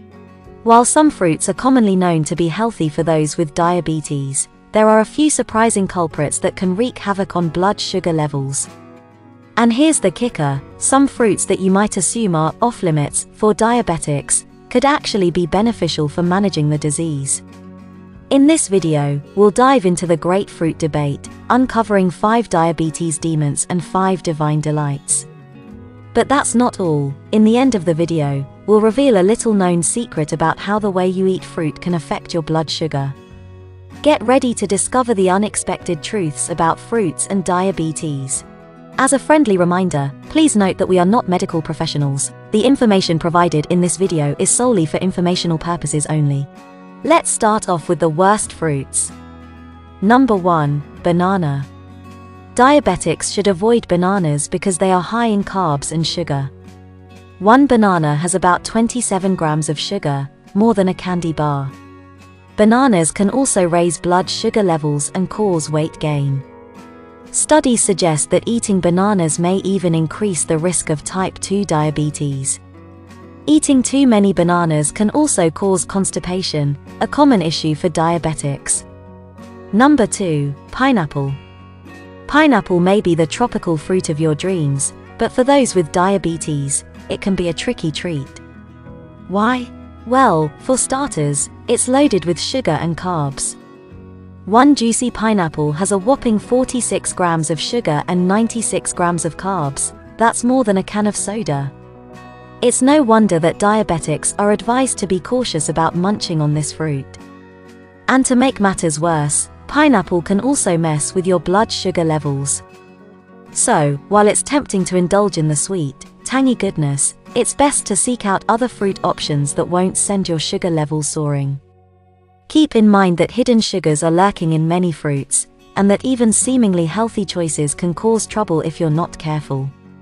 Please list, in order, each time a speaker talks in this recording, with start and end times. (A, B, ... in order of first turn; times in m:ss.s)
0:00.6-0:08.7 A
0:09.6-0:17.4 A
0:18.3-0:25.3 A
0:26.1-0:33.2 A
0:34.0-0:38.4 A
0:39.0-0:46.5 A
0:47.0-0:49.1 A
0:50.0-0:51.7 A
0:52.5-0:56.5 A
0:57.4-1:01.7 A
1:02.6-1:06.4 A
1:07.3-1:12.6 A
1:13.4-1:18.8 A
1:19.7-1:21.4 A
1:22.2-1:28.4 A
1:29.3-1:33.6 A
1:34.4-1:41.7 A
1:42.6-1:47.2 A
1:48.1-1:52.6 A
1:53.5-2:01.6 A
2:02.5-2:09.7 A